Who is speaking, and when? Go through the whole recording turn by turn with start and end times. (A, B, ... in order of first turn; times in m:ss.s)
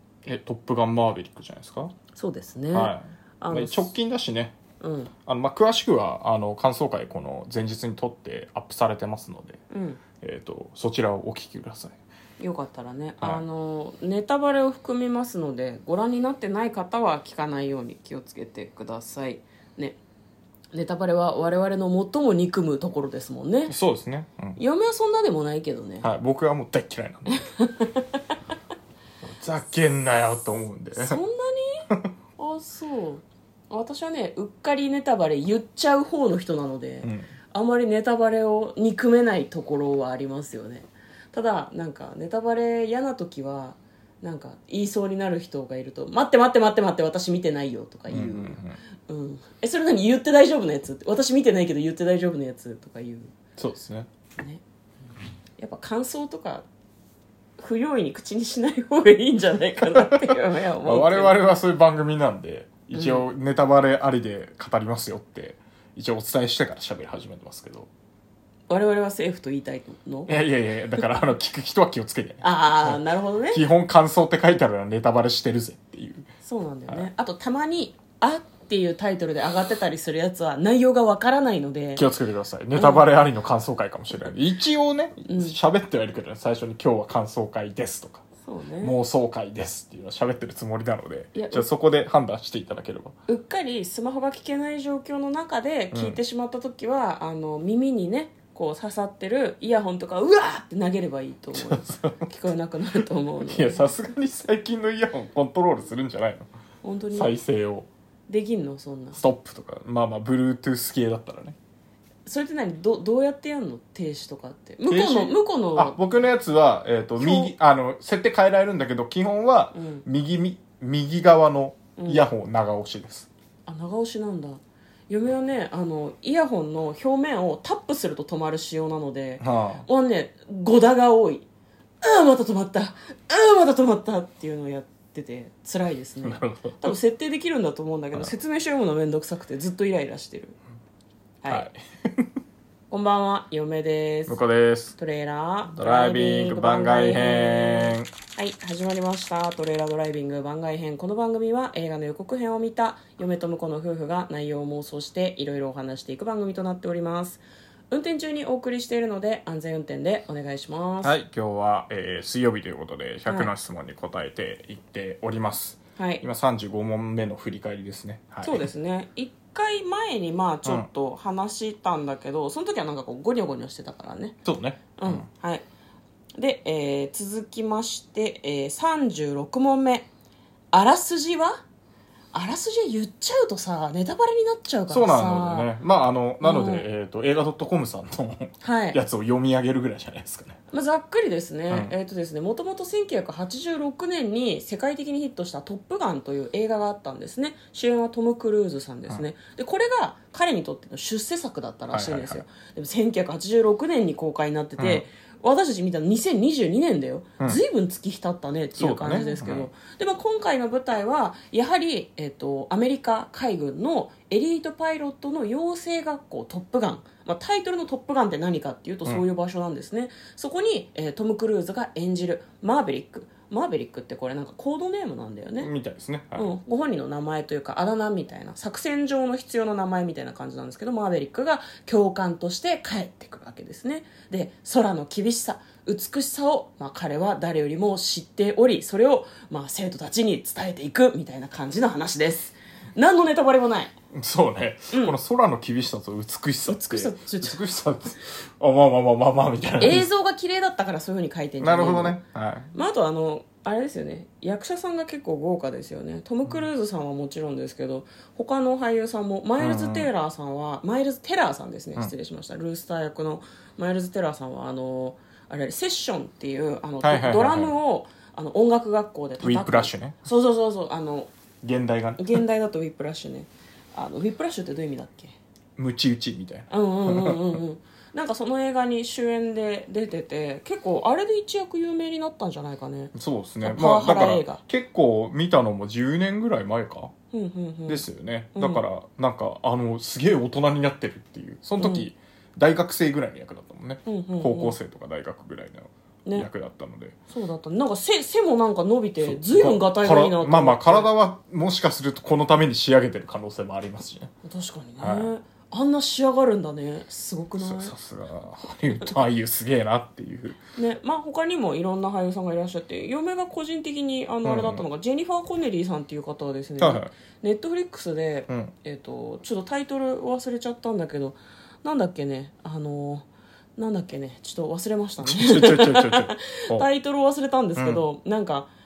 0:00.2-0:01.9 A
0:02.1-0:03.9 B
0:02.7-0:04.5 A
0:04.8-0:05.1 B
0:05.3-0:09.6 A
0:09.7-0:10.0 B
0:10.2-0:12.0 A
0:12.4-0:20.0 B
0:20.7-0:23.7 B
0:23.7-0:24.6 A
0:24.6-0:26.1 B
0:26.0-0:27.4 A
0:27.4-0:28.2 B
0:29.2-0:31.2 A
0:31.0-0:31.8 B
0:32.4-0:53.3 B
0:37.0-0:37.3 A
0:48.1-0:48.8 A
0:53.6-0:54.1 A
0:54.4-0:54.6 B
0:55.6-0:56.6 B
0:57.6-1:01.4 B
1:00.8-1:07.9 A
1:02.9-1:03.2 B
1:08.7-1:10.3 B
1:10.3-1:16.3 A
1:12.4-1:13.6 B
1:16.4-1:22.0 B
1:22.0-1:28.2 A
1:22.7-1:23.0 B
1:25.2-1:25.6 B
1:28.4-1:28.9 B
1:28.8-1:33.1 A
1:31.3-1:31.7 B
1:33.3-1:43.9 B
1:35.9-1:36.2 A
1:41.5-1:42.2 A
1:43.4-1:46.5 A
1:46.8-1:47.3 B
1:47.1-1:47.9 A
1:48.3-1:49.2 B
1:49.2-1:51.6 A
1:52.2-1:56.0 B
1:54.9-2:03.3 A
1:57.2-1:57.5 B
1:59.7-2:00.0 B
2:02.0-2:02.2 B
2:03.6-2:11.4 B
2:09.4-2:09.8 A
2:12.0-2:20.6 B
2:16.2-2:16.9 A
2:21.4-2:21.7 B
2:21.5-2:22.3 A
2:22.9-2:24.4 B
2:24.3-2:25.0 A
2:25.0-2:41.1 B
2:25.7-2:28.1 A
2:41.0-2:48.6 A
2:46.0-2:46.2 B
2:48.4-2:54.4 B
2:54.4-2:55.2 A
2:55.0-2:55.6 B
2:56.4-3:00.1 B
3:00.7-3:01.6 B
3:02.3-3:05.7 B
3:04.9-3:10.6 A
3:06.4-3:06.9 B
3:08.6-3:09.0 B
3:10.7-3:45.7 B
3:21.9-3:22.4 A
3:24.8-3:25.0 A
3:28.8-3:29.7 A
3:45.6-3:46.5 A
3:46.4-4:03.9 B
4:04.1-4:10.1 A
4:04.9-4:05.2 B
4:06.7-4:07.6 B
4:09.8-4:12.2 B
4:11.6-4:12.7 A
4:12.7-4:31.3 B
4:19.6-4:20.1 A
4:27.0-4:27.7 A
4:29.4-4:30.2 A
4:31.6-4:32.4 A
4:32.2-4:35.3 B
4:35.8-4:37.6 A
4:36.7-4:44.6 B
4:43.1-4:47.1 A
4:47.3-4:48.8 B
4:47.9-4:57.1 A
4:51.8-4:52.1 B
4:54.0-4:54.8 B
4:57.3-5:01.1 B
4:59.2-5:04.3 A
5:04.4-5:07.9 B
5:05.0-5:05.3 A
5:07.6-5:10.6 A
5:10.8-5:28.7 B
5:14.4-5:14.8 A
5:16.8-5:17.1 A
5:25.2-5:26.9 A
5:27.8-5:28.0 A